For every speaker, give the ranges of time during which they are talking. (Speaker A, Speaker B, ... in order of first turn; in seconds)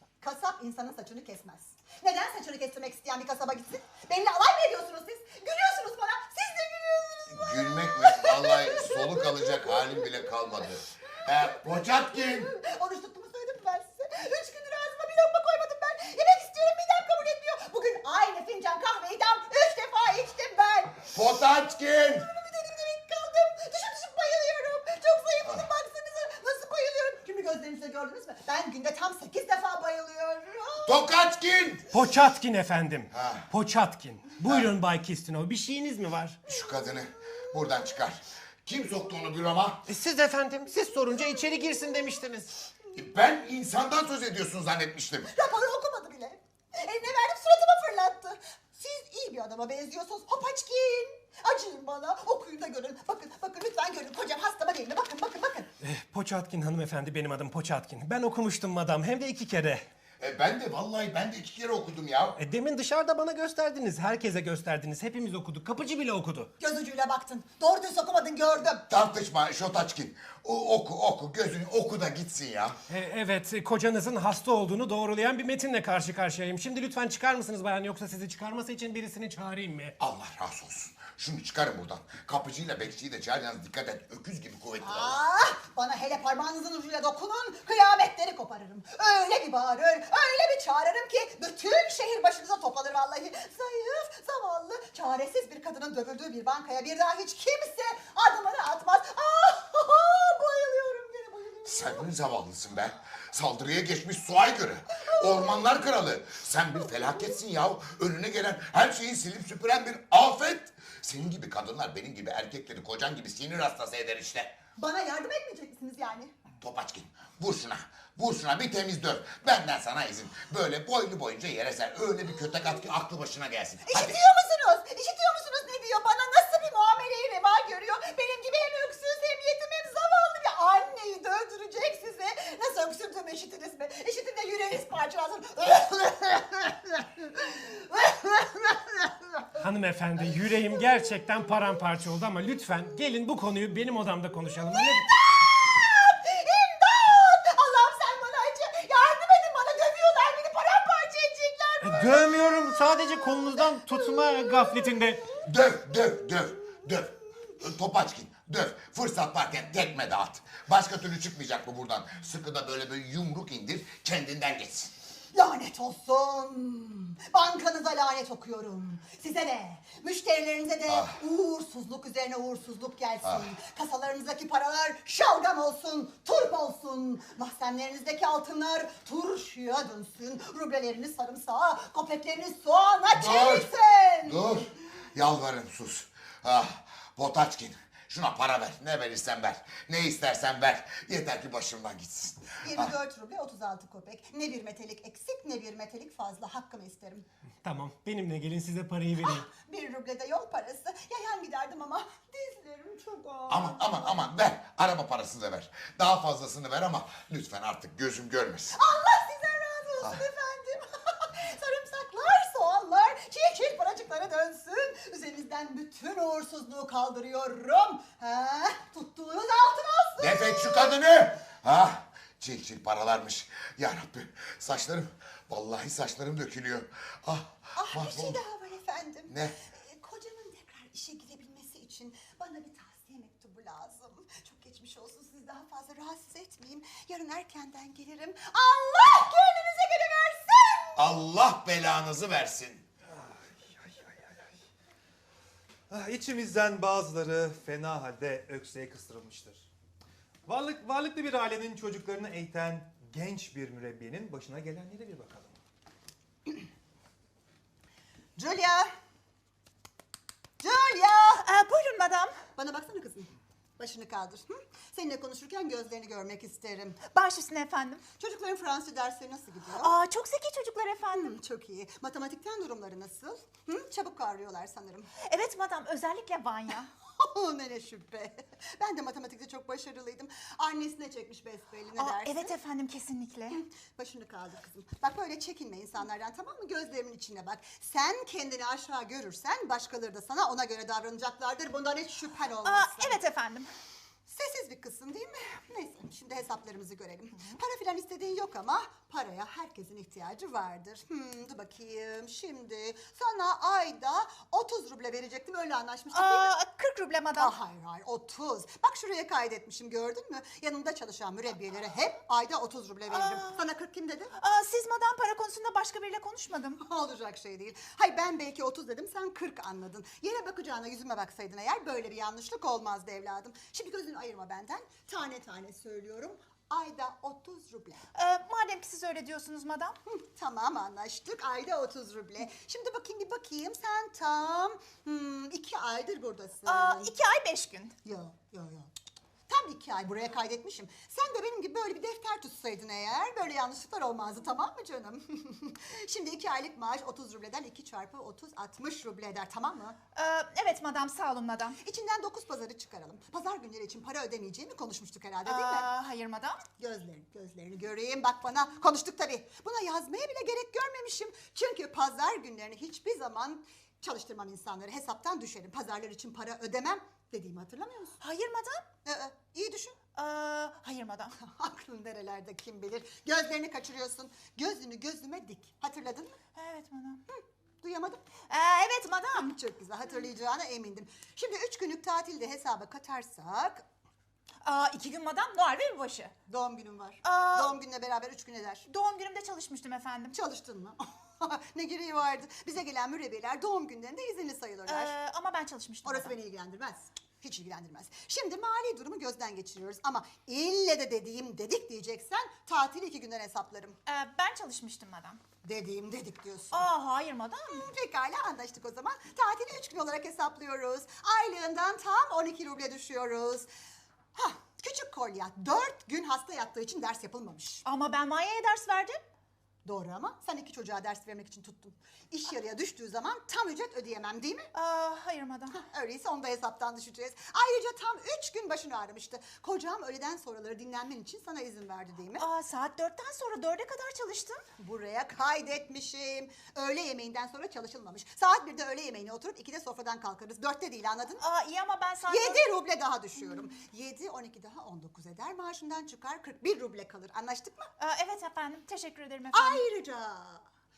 Speaker A: 0.2-10.3, 11.3-21.1, 21.9-31.0, 45.3-55.7, 66.6-68.8, 84.8-102.1, 105.0-106.0, 106.9-107.3, 114.8-116.3, 123.8-139.5, 144.7-154.9, 165.3-184.5, 192.6-197.2, 199.2-204.0, 208.7-221.0, 227.8-241.0, 258.4-258.9, 260.6-261.4, 262.5-267.0, 268.2-269.9, 271.1-275.1, 277.2-282.5, 283.5-293.2, 294.3-306.5, 307.4-314.3, 316.8-328.0, 330.1-337.1, 338.0-338.9, 339.5-350.0, 351.8-355.9, 356.8-368.2, 369.0-370.0, 371.4-376.4, 377.3-378.2, 379.3-383.8, 386.5-388.9, 390.3-395.1, 396.0-404.0, 405.6-406.8, 407.7-413.7, 414.3-417.8, 419.8-424.7, 425.7-432.5, 434.8-441.4, 442.3-447.9, 449.5-450.6
Speaker B: 7.3-12.5, 21.1-22.3, 30.8-31.9, 33.1-33.5, 34.4-34.7, 36.5-39.8, 42.9-45.3, 60.2-62.4, 68.9-72.8, 80.0-85.2, 101.7-114.5, 116.6-124.2, 155.3-164.9, 170.9-171.2, 183.1-183.7, 184.2-192.9, 203.5-208.8, 220.2-228.4, 229.3-229.6, 240.9-242.8
Speaker C: 31.9-36.4, 39.9-42.5, 55.8-59.8, 62.4-66.5, 72.9-79.9, 139.6-145.1, 151.8-155.2, 197.6-199.4
Speaker D: 243.1-244.4, 245.9-249.7, 250.4-255.5
Speaker E: 261.4-262.4, 267.0-268.0, 269.8-271.3, 275.2-276.9, 282.0-283.6, 292.6-293.7, 306.1-307.5, 313.1-313.6, 314.3-316.8, 328.1-330.0, 336.6-337.9, 350.1-351.8, 355.4-356.6, 368.2-368.8, 370.1-371.4, 376.5-377.2, 378.5-379.5, 384.6-386.3, 387.2-387.8, 388.9-390.4, 394.9-396.3, 404.1-405.4, 406.7-407.9, 417.8-419.2, 424.7-425.8, 432.4-434.6, 441.4-442.7, 448.0-449.8